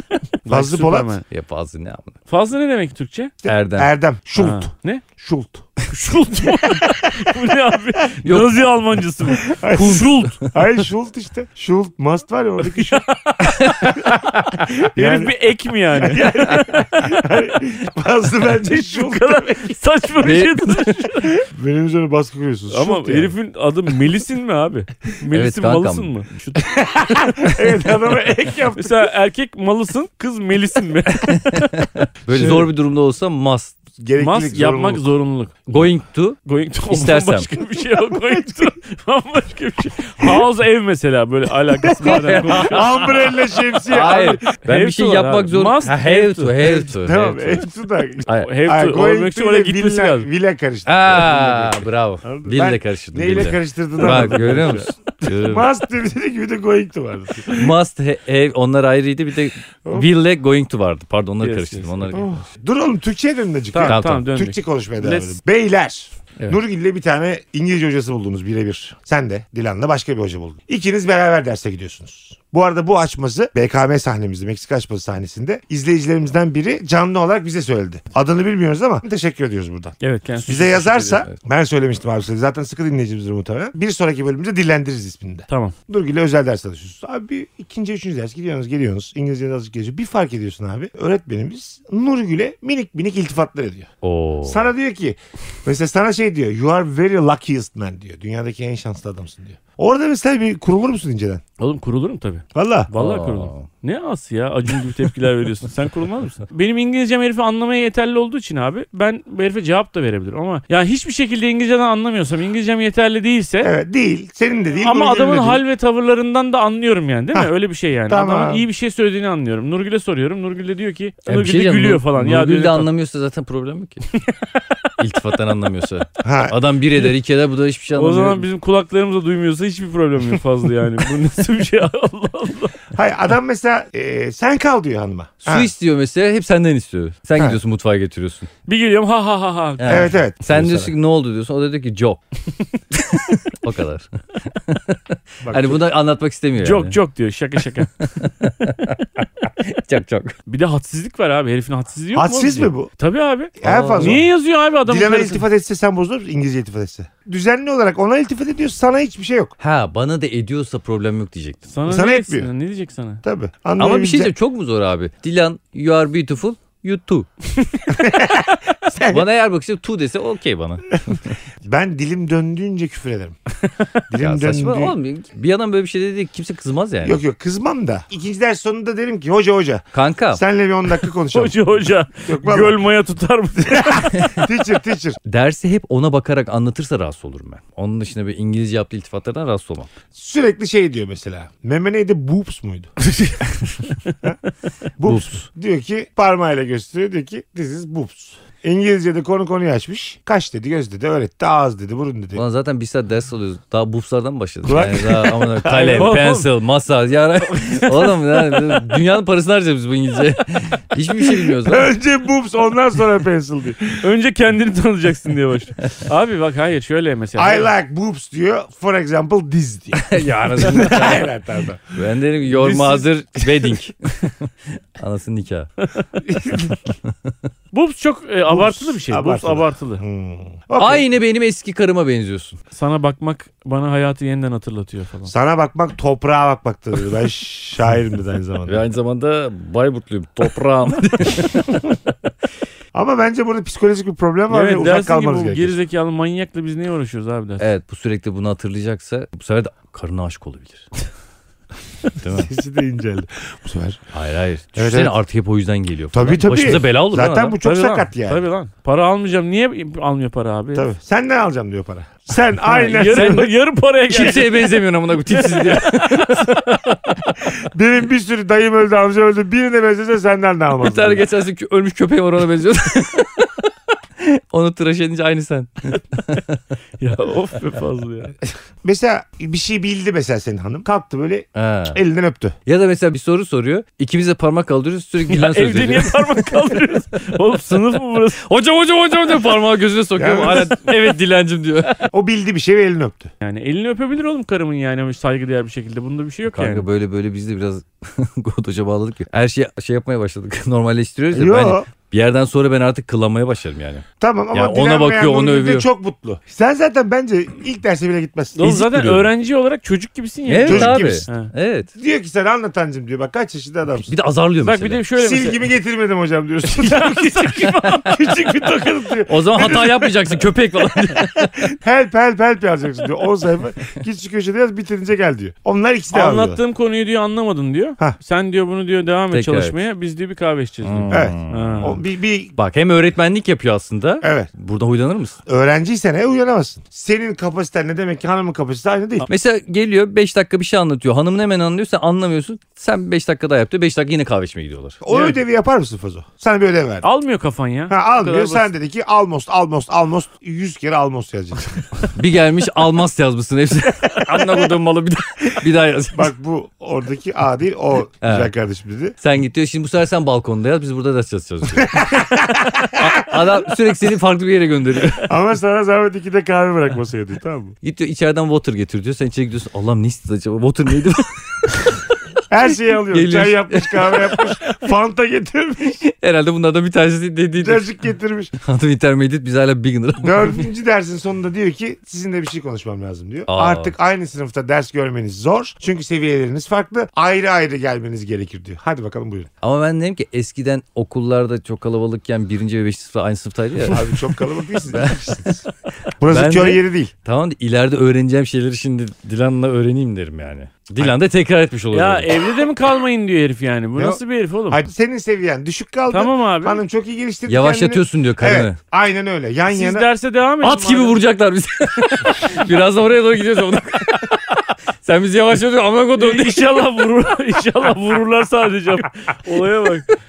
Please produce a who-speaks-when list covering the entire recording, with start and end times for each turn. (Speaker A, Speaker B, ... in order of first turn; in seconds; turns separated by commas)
Speaker A: 0.4-1.2, Speaker B: 0.5-1.2, Speaker C: 1.3-2.1, Speaker A: 2.3-3.3, Speaker B: 3.4-5.7, Speaker C: 3.5-3.9, Speaker A: 4.4-5.0, Speaker A: 5.9-10.4, Speaker B: 6.6-7.3, Speaker C: 8.2-8.6, Speaker B: 9.4-13.1, Speaker C: 9.7-10.3, Speaker A: 12.9-14.1, Speaker C: 13.6-14.0, Speaker B: 14.5-15.3, Speaker A: 14.7-17.6, Speaker B: 16.0-19.8, Speaker A: 18.6-21.4, Speaker C: 20.2-20.9, Speaker B: 21.4-23.3, Speaker A: 22.7-26.8, Speaker C: 25.3-26.1, Speaker B: 26.6-29.1, Speaker A: 28.8-31.8, Speaker C: 31.3-33.8, Speaker B: 32.3-32.7, Speaker B: 34.0-35.0, Speaker A: 34.2-35.8, Speaker C: 35.7-37.5, Speaker A: 36.5-43.0, Speaker B: 41.9-44.5, Speaker C: 42.0-43.3, Speaker C: 43.9-47.7, Speaker A: 44.6-46.8, Speaker B: 46.6-57.7, Speaker C: 48.2-48.5, Speaker A: 48.4-50.3, Speaker C: 50.9-55.7, Speaker A: 54.0-54.9, Speaker C: 57.5-62.5, Speaker A: 61.4-62.2, Speaker B: 62.1-93.9, Speaker A: 63.7-65.4, Speaker C: 63.8-64.2, Speaker A: 80.0-81.3, Speaker A: 85.5-85.8, Speaker C: 94.0-94.7, Speaker B: 94.4-101.4, Speaker A: 101.6-113.7, Speaker B: 102.5-102.9, Speaker C: 102.9-103.7, Speaker B: 113.6-115.6, Speaker A: 114.8-122.9, Speaker B: 118.1-118.6, Speaker C: 121.3-124.0, Speaker C: 125.0-128.4, Speaker B: 126.2-126.6, Speaker A: 128.0-132.8, Speaker B: 132.9-135.7, Speaker C: 135.5-138.5, Speaker A: 138.7-140.2, Speaker C: 139.8-142.2, Speaker B: 139.9-140.9, Speaker C: 143.0-147.0, Speaker B: 145.4-145.8, Speaker A: 146.6-147.9, Speaker C: 148.1-150.3, Speaker A: 150.5-155.4, Speaker B: 152.1-152.9, Speaker B: 153.6-154.3, Speaker C: 153.6-154.2, Speaker B: 154.8-159.5, Speaker C: 159.6-161.7, Speaker A: 161.7-163.2, Speaker B: 161.9-162.5, Speaker B: 163.2-164.3, Speaker C: 163.8-167.3, Speaker B: 168.0-169.2, Speaker C: 169.1-171.2, Speaker B: 171.6-173.4, Speaker B: 174.1-174.9, Speaker C: 174.2-177.2, Speaker B: 177.0-181.6, Speaker C: 179.9-180.4, Speaker A: 181.3-184.4, Speaker B: 182.2-182.8, Speaker B: 183.7-185.2, Speaker C: 185.3-189.9, Speaker B: 190.1-192.9, Speaker A: 193.1-193.5, Speaker B: 195.0-202.4, Speaker C: 195.1-195.5, Speaker C: 202.3-211.9, Speaker B: 204.6-206.2, Speaker A: 205.9-206.5, Speaker A: 207.5-208.2, Speaker B: 211.4-214.0, Speaker A: 214.0-217.7, Speaker B: 217.4-221.8, Speaker C: 219.9-221.3, Speaker C: 221.9-225.7, Speaker B: 222.7-223.0, Speaker B: 226.2-226.8, Speaker C: 227.0-227.3, Speaker A: 227.7-230.0, Speaker B: 228.5-231.1, Speaker C: 230.8-232.6, Speaker A: 232.7-235.3, Speaker B: 235.3-238.8, Speaker C: 238.7-241.8, Speaker B: 242.9-245.8, Speaker A: 244.5-247.7, Speaker C: 247.6-250.9, Speaker C: 252.2-252.5, Speaker B: 252.3-254.0, Speaker C: 254.1-257.6, Speaker B: 254.8-255.1, Speaker B: 256.1-258.4, Speaker A: 257.6-260.9, Speaker B: 260.7-263.5, Speaker A: 262.6-264.7, Speaker C: 263.0-263.5, Speaker C: 264.1-267.2, Speaker A: 265.3-266.6, Speaker B: 267.6-271.2, Speaker C: 270.8-273.7, Speaker C: 274.2-276.6, Speaker A: 277.0-278.4, Speaker B: 278.8-282.6, Speaker C: 281.6-282.0, Speaker C: 282.7-286.4, Speaker A: 285.2-288.4, Speaker C: 288.4-292.1, Speaker B: 290.2-290.7, Speaker B: 292.1-293.3, Speaker A: 293.4-296.9, Speaker C: 296.5-305.9, Speaker B: 301.3-301.9, Speaker B: 304.2-308.7, Speaker A: 308.6-311.5, Speaker C: 308.6-309.3, Speaker C: 310.5-311.9, Speaker B: 310.6-311.3, Speaker B: 312.0-314.1, Speaker C: 314.1-315.0, Speaker A: 314.6-315.6, Speaker B: 315.2-326.6, Speaker A: 316.7-318.9, Speaker C: 319.3-321.7, Speaker A: 326.1-332.0, Speaker C: 329.3-329.8, Speaker C: 330.8-331.9, Speaker B: 331.1-332.6, Speaker C: 332.6-335.4, Speaker B: 334.2-334.5, Speaker B: 335.5-339.3, Speaker C: 339.3-345.0, Speaker B: 345.0-347.1, Speaker A: 345.1-345.4, Speaker A: 347.0-348.7, Speaker B: 347.9-351.9, Speaker C: 352.1-356.3, Speaker B: 354.3-354.5, Speaker B: 356.1-359.2, Speaker C: 358.2-358.5, Speaker C: 359.2-362.1, Speaker B: 361.8-363.4, Speaker C: 362.8-365.3, Speaker B: 365.2-367.8, Speaker C: 367.8-371.9, Speaker B: 372.5-376.0, Speaker C: 373.1-374.6, Speaker C: 376.0-377.9, Speaker B: 377.6-378.5, Speaker C: 378.6-380.6, Speaker B: 380.2-389.5, Speaker C: 383.5-383.9, Speaker C: 389.6-395.4, Speaker B: 393.9-395.6, Speaker B: 396.2-397.1, Speaker C: 396.3-402.3, Speaker A: 401.9-404.8, Speaker B: 404.0-410.1, Speaker A: 406.1-406.8, Speaker C: 407.5-408.8, Speaker A: 409.7-411.2, Speaker C: 410.6-416.7, Speaker A: 416.2-420.1